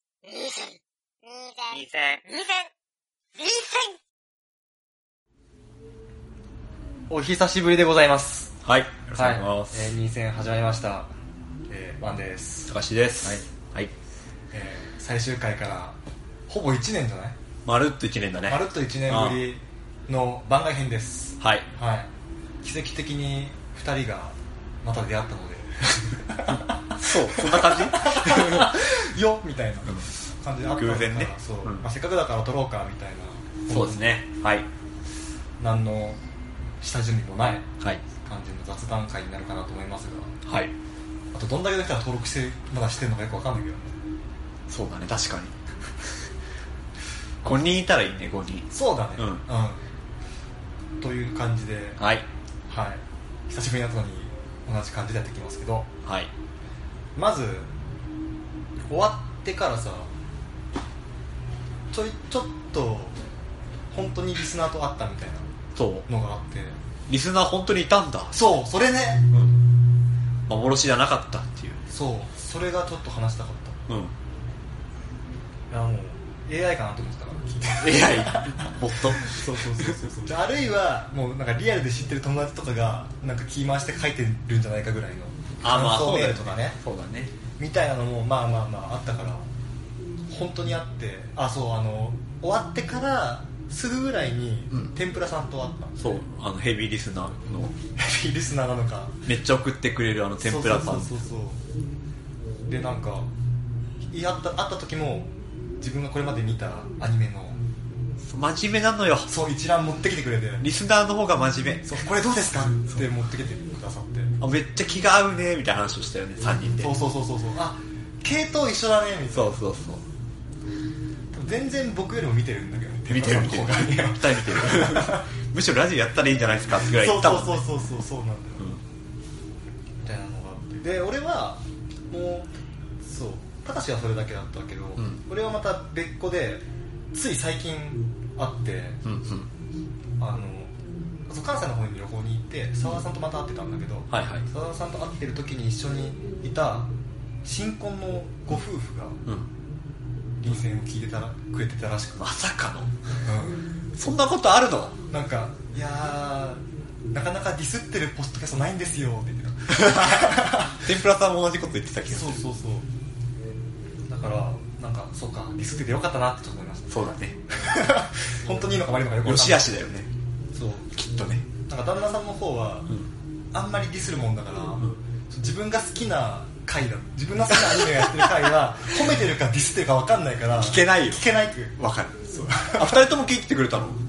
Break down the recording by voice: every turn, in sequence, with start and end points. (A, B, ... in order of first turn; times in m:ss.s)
0:00.2-0:02.7 A
0:03.4-0:04.0 A
0:07.1-0:08.5 B
0:08.6-0:09.9 C
0:09.1-0:11.1 B
0:11.7-0:12.7 B
0:12.7-0:13.9 C
0:14.5-0:16.0 B
0:16.5-0:17.4 B
0:17.6-0:19.4 C
0:18.5-0:22.1 B
0:21.4-0:21.7 C
0:22.6-0:34.1 B
0:26.5-0:28.8 C
0:30.7-0:31.8 C
0:33.7-0:34.7 C
0:35.6-0:36.2 B
0:36.8-0:40.3 B
0:40.4-0:40.7 C
0:41.3-0:44.0 B
0:44.7-0:45.5 C
0:47.4-0:49.4 C
0:48.7-0:49.8 B
0:51.0-0:52.0 B
0:52.0-0:52.2 C
0:52.7-0:55.9 B
0:56.0-0:56.3 C
0:57.2-0:57.7 B
0:58.9-1:00.1 B
1:01.9-1:03.1 B
1:03.9-1:05.5 B
1:05.7-1:06.0 C
1:06.1-1:06.8 B
1:07.1-1:08.4 C
1:08.3-1:09.2 B
1:10.5-1:11.8 C
1:11.9-1:13.8 B
1:13.9-1:14.1 C
1:15.7-1:26.8 B
1:17.8-1:19.9 C
1:25.6-1:27.3 C
1:27.6-1:29.5 B
1:30.3-1:36.2 B
1:36.0-1:37.7 C
1:38.0-1:39.2 B
1:39.2-1:41.2 C
1:40.4-1:41.6 B
1:42.7-1:43.3 B
1:44.1-1:47.6 B
1:48.2-1:49.3 C
1:49.3-1:50.7 B
1:50.6-1:52.0 C
1:51.8-1:54.3 B
1:54.4-1:56.9 C
1:56.7-1:59.6 B
1:59.3-2:00.0 C
2:01.3-2:05.2 B
2:03.1-2:07.6 C
2:06.9-2:08.7 B
2:10.0-2:12.5 B
2:13.0-2:19.0 B
2:19.0-2:19.5 C
2:20.2-2:20.7 B
2:21.3-2:26.9 B
2:24.1-2:24.5 C
2:27.4-2:29.2 B
2:30.4-2:32.3 B
2:32.2-2:32.9 C
2:33.2-2:33.6 B
2:34.0-2:35.0 C
2:35.1-2:40.8 B
2:39.8-2:42.4 C
2:42.1-2:42.9 B
2:44.1-2:50.0 B
2:46.9-2:47.4 C
2:49.2-2:50.1 C
2:50.5-2:50.9 B
2:50.9-2:51.5 C
2:51.7-2:52.9 B
2:53.5-3:03.0 B
2:57.5-2:58.3 C
3:00.6-3:01.2 C
3:01.8-3:04.0 C